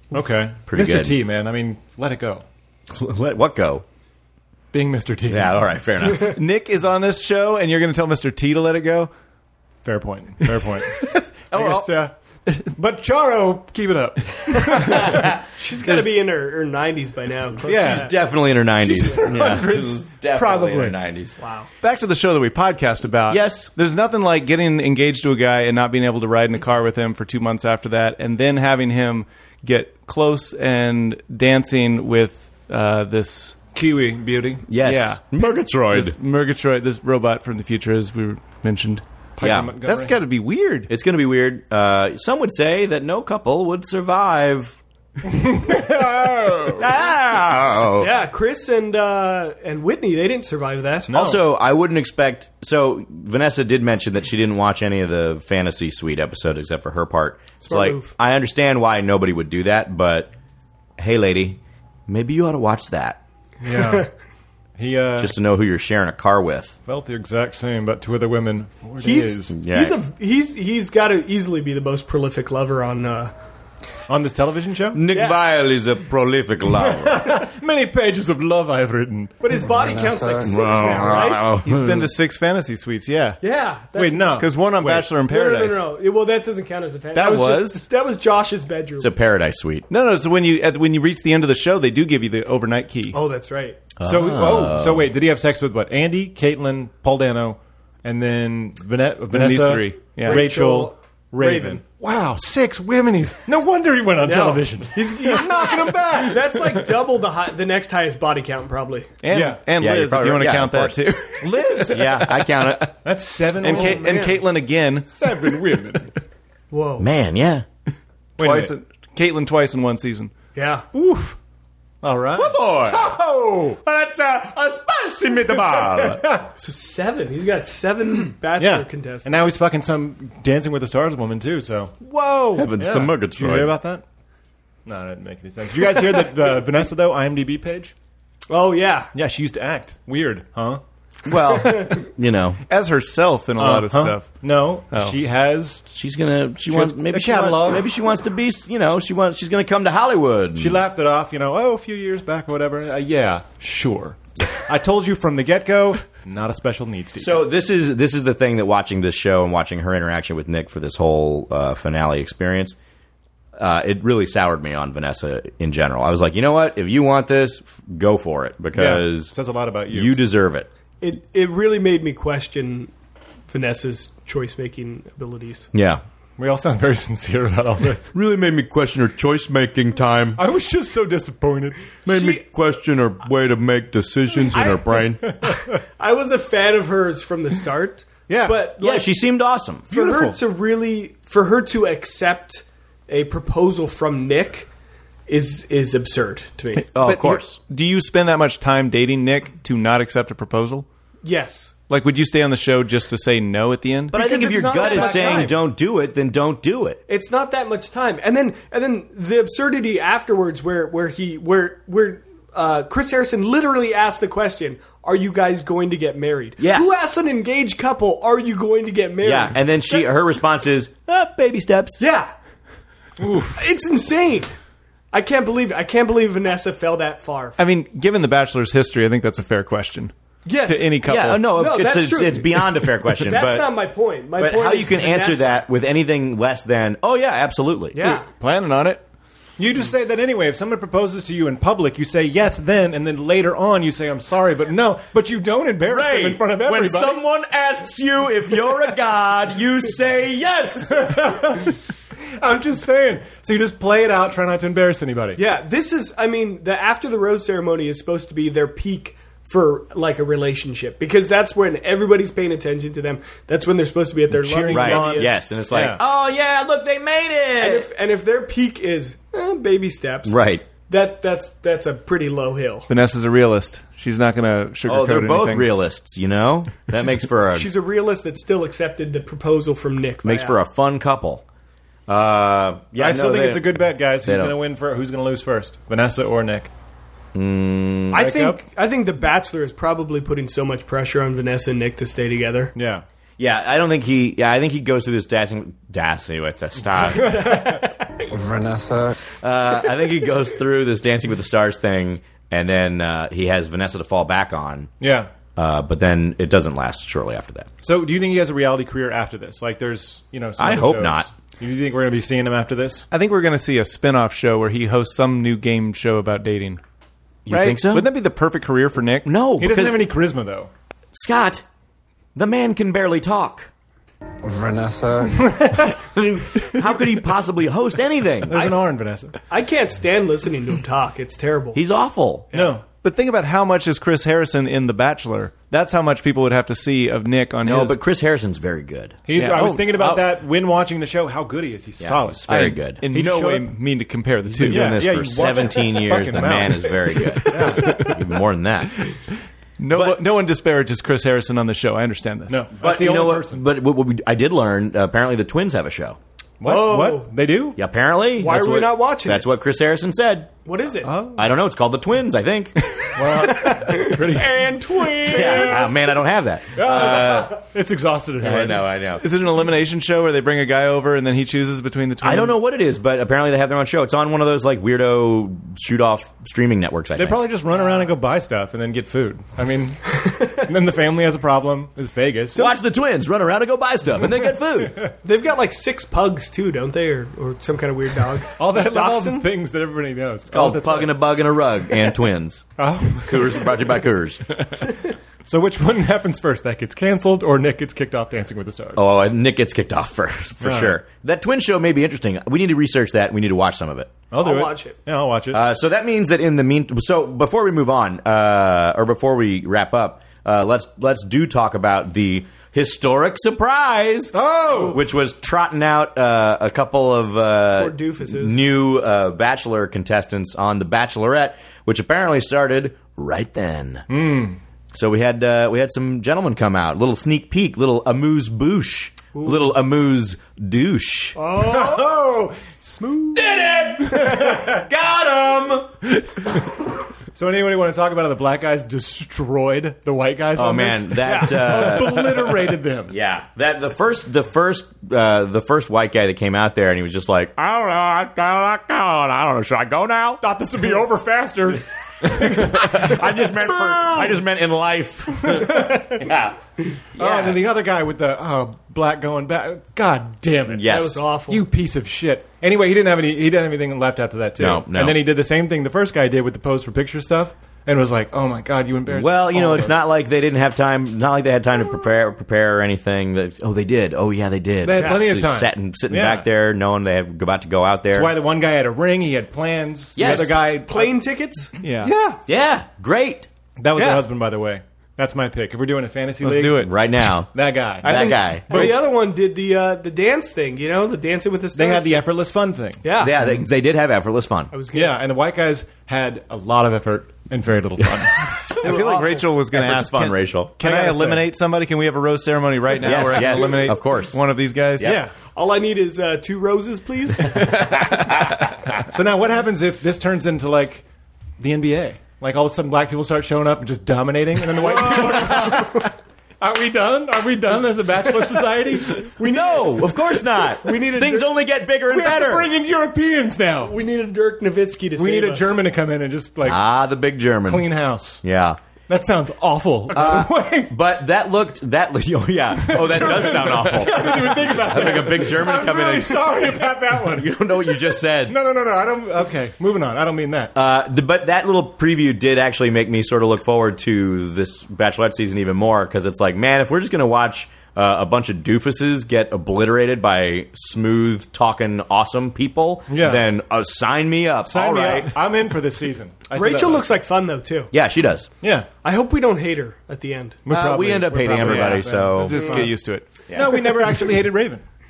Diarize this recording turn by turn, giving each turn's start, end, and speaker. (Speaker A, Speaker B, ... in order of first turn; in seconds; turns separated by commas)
Speaker A: 0.1-2.4, Speaker B: 0.7-1.2, Speaker B: 2.9-3.8, Speaker A: 4.7-5.7, Speaker B: 5.3-6.4, Speaker C: 6.2-9.1, Speaker A: 9.8-12.1, Speaker C: 11.5-11.9, Speaker A: 12.7-15.2, Speaker B: 14.9-15.4, Speaker D: 15.5-18.1, Speaker A: 17.6-18.1, Speaker B: 17.6-21.4, Speaker A: 18.8-21.0, Speaker D: 21.4-21.7, Speaker C: 21.8-33.6, Speaker B: 23.3-23.7, Speaker A: 33.7-34.6, Speaker B: 34.7-36.1, Speaker C: 34.8-39.0, Speaker A: 39.4-40.2, Speaker B: 39.4-39.7, Speaker C: 39.8-40.9, Speaker B: 40.9-44.8, Speaker A: 45.2-46.9, Speaker B: 46.8-48.1, Speaker D: 48.0-51.1, Speaker A: 51.1-51.4, Speaker B: 51.1-60.3, Speaker D: 57.6-58.1, Speaker B: 61.0-63.2, Speaker A: 63.6-64.1, Speaker D: 63.8-64.1, Speaker A: 64.8-65.3, Speaker B: 65.2-66.7, Speaker A: 66.8-69.5, Speaker D: 69.0-73.3, Speaker B: 69.5-70.0, Speaker A: 74.1-75.0, Speaker B: 74.9-77.4, Speaker D: 75.1-75.4, Speaker A: 76.8-79.3, Speaker D: 79.4-81.5, Speaker E: 79.7-80.5, Speaker B: 80.4-82.1, Speaker C: 81.2-83.3, Speaker D: 83.4-84.5, Speaker A: 83.9-85.1, Speaker C: 84.4-85.9, Speaker D: 85.2-89.1, Speaker C: 87.1-87.8, Speaker B: 89.0-89.9, Speaker C: 89.9-93.2, Speaker D: 93.1-93.8, Speaker B: 94.0-95.1, Speaker A: 94.0-106.9, Speaker C: 99.3-100.5, Speaker D: 100.2-101.8, Speaker D: 104.2-109.2, Speaker C: 109.2-112.4, Speaker A: 109.3-109.6, Speaker B: 109.8-111.0, Speaker A: 111.4-112.3, Speaker B: 111.8-112.9, Speaker A: 113.0-114.0, Speaker C: 113.6-115.8, Speaker D: 113.6-114.4, Speaker A: 115.1-116.1, Speaker D: 116.7-117.1, Speaker B: 117.0-117.6, Speaker A: 118.4-118.7, Speaker C: 118.4-120.3, Speaker D: 120.5-120.8, Speaker A: 120.9-121.4, Speaker A: 122.0-123.8, Speaker B: 122.3-123.2, Speaker B: 123.8-126.2, Speaker A: 125.9-126.5, Speaker D: 126.5-129.5, Speaker A: 128.6-134.0, Speaker B: 132.5-133.8, Speaker A: 134.8-137.9, Speaker D: 138.5-139.1, Speaker A: 139.1-140.8, Speaker B: 141.2-142.6, Speaker D: 141.6-142.0, Speaker C: 142.7-144.4, Speaker A: 143.6-145.8, Speaker C: 144.9-145.2, Speaker B: 145.9-150.8, Speaker A: 146.7-147.8, Speaker A: 150.6-157.4, Speaker B: 157.2-162.8, Speaker B: 163.6-169.3, Speaker A: 168.7-170.1, Speaker B: 169.9-170.7, Speaker D: 171.0-172.9, Speaker D: 173.5-175.7, Speaker B: 175.7-176.0, Speaker A: 176.4-178.1, Speaker B: 178.1-180.4, Speaker A: 180.4-181.8, Speaker B: 182.1-185.3, Speaker D: 182.1-182.4, Speaker D: 184.5-184.8, Speaker A: 185.4-185.7, Speaker D: 185.4-189.1, Speaker A: 188.3-188.6, Speaker B: 188.8-189.9, Speaker A: 189.9-190.4, Speaker D: 189.9-194.7, Speaker D: 195.3-196.9, Speaker B: 196.9-197.6, Speaker C: 196.9-200.8, Speaker D: 201.2-201.7, Speaker C: 201.9-204.2, Speaker B: 204.1-207.0, Speaker D: 204.1-205.6, Speaker C: 204.8-205.3, Speaker D: 207.1-220.1, Speaker B: 216.6-217.0, Speaker B: 219.2-222.0, Speaker D: 222.0-222.3, Speaker A: 223.2-223.6, Speaker D: 223.6-224.5, Speaker D: 225.1-227.6, Speaker C: 227.6-230.1, Speaker D: 230.4-235.6, Speaker C: 230.6-231.5, Speaker B: 231.0-233.7, Speaker B: 234.4-238.2, Speaker D: 237.9-238.3, Speaker C: 238.3-239.0, Speaker A: 239.6-247.2, Speaker B: 245.8-251.2, Speaker A: 250.9-251.8, Speaker A: 252.4-255.4, Speaker D: 255.4-265.4, Speaker A: 264.3-266.0, Speaker B: 264.7-267.9, Speaker D: 267.6-272.9, Speaker B: 270.2-270.6, Speaker C: 272.9-275.7, Speaker B: 274.9-277.7, Speaker D: 277.5-280.6, Speaker B: 280.2-281.4, Speaker B: 282.1-284.6, Speaker A: 282.9-286.7, Speaker B: 287.3-288.3, Speaker D: 288.1-292.7, Speaker A: 288.1-288.6, Speaker A: 292.7-293.0, Speaker B: 293.4-297.8, Speaker A: 297.1-297.9, Speaker E: 298.3-299.2, Speaker B: 299.4-304.9, Speaker A: 305.0-305.3, Speaker B: 305.6-307.7, Speaker A: 307.8-313.1, Speaker B: 310.6-311.3, Speaker C: 313.1-316.8, Speaker B: 317.4-318.1, Speaker C: 317.5-319.3, Speaker B: 319.2-320.0, Speaker A: 319.6-320.7, Speaker B: 321.1-321.6, Speaker B: 322.3-323.7, Speaker E: 324.4-325.8, Speaker A: 325.4-325.9, Speaker B: 325.9-328.7, Speaker A: 328.5-329.3, Speaker D: 329.5-331.8, Speaker B: 331.7-332.5, Speaker D: 332.5-332.8, Speaker A: 332.5-332.8, Speaker C: 332.9-338.0, Speaker B: 337.6-339.2, Speaker A: 339.2-343.7, Speaker C: 339.4-340.2, Speaker B: 342.0-343.0, Speaker C: 342.5-345.0, Speaker B: 344.5-349.0, Speaker A: 344.6-348.1, Speaker C: 349.8-352.7, Speaker B: 349.9-350.2, Speaker A: 352.5-353.6, Speaker B: 352.8-356.2, Speaker A: 356.6-357.8, Speaker D: 356.6-357.3, Speaker B: 357.8-360.5, Speaker D: 358.4-359.5, Speaker D: 360.6-361.1, Speaker A: 361.0-361.5, Speaker B: 361.3-363.0, Speaker A: 363.1-365.9, Speaker D: 363.4-365.9, Speaker B: 365.3-367.6, Speaker A: 366.7-368.9, Speaker B: 368.4-369.2, Speaker C: 369.2-372.6, Speaker B: 372.2-377.4, Speaker A: 377.1-382.7, Speaker B: 382.5-385.0, Speaker D: 385.2-389.5, Speaker A: 388.6-391.2, Speaker B: 390.5-392.7, Speaker A: 392.8-393.7, Speaker B: 393.2-394.4, Speaker A: 395.4-399.0, Speaker B: 398.9-404.2, Speaker A: 400.6-401.0, Speaker A: 404.3-405.6, Speaker D: 404.3-405.0, Speaker B: 405.5-424.0, Speaker A: 414.3-415.0, Speaker D: 417.7-418.6, Speaker A: 424.1-424.6, Speaker B: 424.9-431.4, Speaker D: 429.3-429.7, Speaker D: 431.4-432.1, Speaker A: 431.5-434.8, Speaker B: 433.4-435.9, Speaker A: 437.3-443.1, Speaker B: 440.6-450.4, Speaker D: 441.2-442.0, Speaker A: 450.4-453.2, Speaker B: 452.2-456.6, Speaker A: 455.4-456.3, Speaker B: 457.1-457.6, Speaker A: 457.2-460.9, Speaker B: 460.7-461.2, Speaker D: 460.9-461.6, Speaker A: 461.5-470.0, Speaker B: 464.6-465.2, Speaker B: 469.1-478.3, Speaker A: 474.8-476.5, Speaker D: 474.9-475.2, Speaker A: 478.1-481.1, Speaker B: 480.1-480.6, Speaker D: 480.9-482.4, Speaker C: 481.8-482.1, Speaker B: 482.5-483.5, Speaker A: 483.8-486.9, Speaker D: 483.9-484.2, Speaker C: 486.4-486.9, Speaker B: 486.8-488.9, Speaker A: 487.5-488.9, Speaker D: 488.0-492.3, Speaker C: 488.1-488.9, Speaker A: 491.7-493.5, Speaker D: 493.0-493.3, Speaker B: 493.2-494.7, Speaker D: 494.7-495.2, Speaker A: 494.9-498.7, Speaker B: 498.0-498.2, Speaker D: 498.8-499.5, Speaker C: 498.8-505.2, Speaker B: 499.7-500.8, Speaker A: 500.8-501.4, Speaker B: 503.0-505.2, Speaker D: 503.1-503.9, Speaker A: 505.0-505.3, Speaker D: 505.5-507.9, Speaker B: 508.0-508.7, Speaker A: 509.1-511.0, Speaker A: 511.6-519.2, Speaker B: 514.9-515.8, Speaker B: 519.2-522.7, Speaker D: 519.4-521.5, Speaker A: 522.1-524.0, Speaker D: 523.8-525.8, Speaker A: 525.2-526.8, Speaker B: 526.6-528.8, Speaker A: 527.6-528.4, Speaker A: 529.1-530.9, Speaker B: 530.1-538.6, Speaker A: 532.8-537.9, Speaker A: 538.4-540.7, Speaker B: 540.7-555.4, Speaker A: 553.1-553.5, Speaker A: 554.6-557.1, Speaker D: 556.5-557.9, Speaker B: 557.9-558.5, Speaker A: 558.6-558.9, Speaker D: 559.0-560.6, Speaker A: 560.6-562.9, Speaker B: 560.7-562.8, Speaker C: 562.4-563.4, Speaker B: 563.5-563.8, Speaker A: 563.5-564.8